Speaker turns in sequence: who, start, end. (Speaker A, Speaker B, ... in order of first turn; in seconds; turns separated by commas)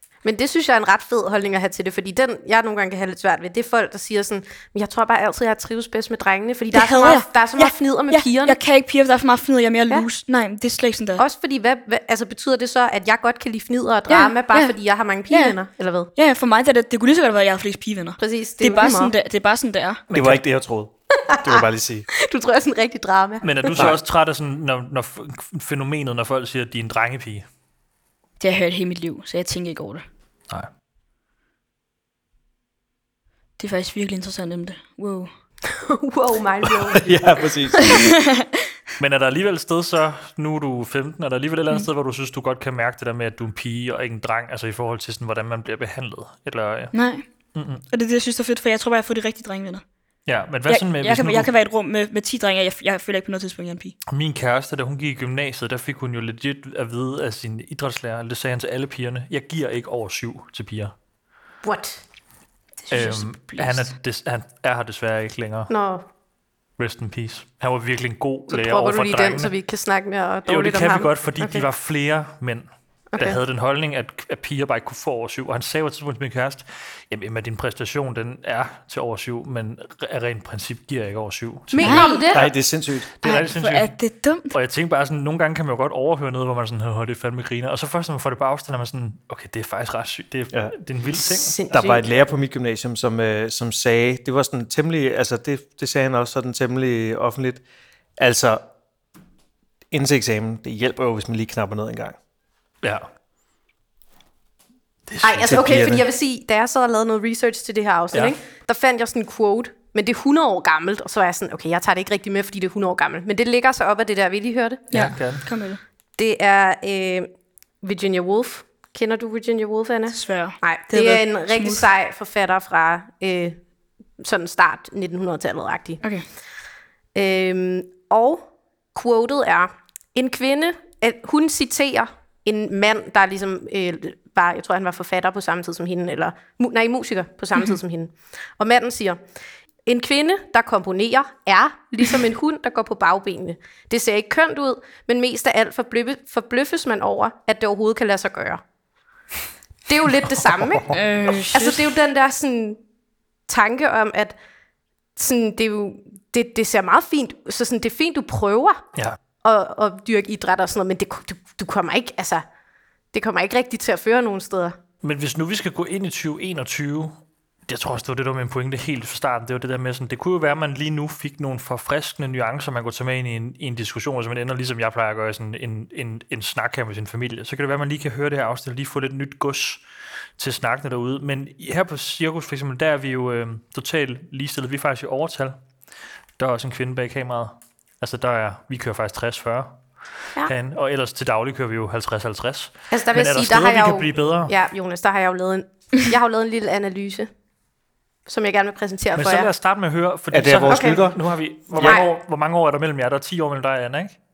Speaker A: 0.2-8.6, Speaker B: 6.7-11.2, Speaker A: 11.2-16.1, Speaker B: 14.1-14.8, Speaker B: 15.3-15.6, Speaker B: 16.2-20.0, Speaker A: 18.2-19.1, Speaker C: 20.1-20.4, Speaker D: 20.1-22.1, Speaker A: 21.3-23.9, Speaker C: 23.4-27.5, Speaker B: 28.4-30.1, Speaker B: 33.6-35.3, Speaker A: 35.6-37.2, Speaker D: 36.9-38.0, Speaker B: 37.8-38.5, Speaker C: 39.0-46.9, Speaker B: 46.9-47.2, Speaker C: 47.5-47.8, Speaker B: 47.9-49.8, Speaker C: 50.3-51.5, Speaker B: 50.7-54.0, Speaker C: 54.1-60.9, Speaker A: 61.6-62.0, Speaker B: 62.8-63.9, Speaker C: 62.9-65.7, Speaker A: 65.7-66.0, Speaker C: 66.8-69.5, Speaker A: 68.5-71.7, Speaker C: 70.5-82.1, Speaker A: 73.1-73.4, Speaker A: 81.7-82.5, Speaker B: 81.8-82.3, Speaker D: 82.3-83.2, Speaker C: 83.2-83.9, Speaker B: 83.2-84.5, Speaker C: 84.5-91.6, Speaker A: 91.2-92.1, Speaker D: 91.7-97.6, Speaker D: 98.2-98.6, Speaker D: 99.9-102.2, Speaker C: 102.8-103.1, Speaker C: 105.1-105.6, Speaker A: 105.2-114.9, Speaker D: 105.4-106.1, Speaker C: 114.9-115.5, Speaker B: 114.9-115.8, Speaker A: 116.2-117.3, Speaker A: 117.8-123.6, Speaker B: 120.1-121.9, Speaker A: 124.2-126.0, Speaker A: 127.1-139.2, Speaker A: 139.9-148.6, Speaker A: 149.9-152.8, Speaker B: 150.9-151.9, Speaker A: 153.5-154.3, Speaker A: 155.2-158.8, Speaker A: 159.4-162.4, Speaker A: 163.1-164.8, Speaker C: 165.0-179.8, Speaker C: 180.4-185.6, Speaker C: 186.4-189.8, Speaker C: 190.4-194.5, Speaker A: 192.9-197.3, Speaker A: 198.3-199.5, Speaker C: 199.2-204.2, Speaker D: 200.3-201.2, Speaker A: 200.7-201.0, Speaker D: 201.7-202.0, Speaker A: 201.8-202.1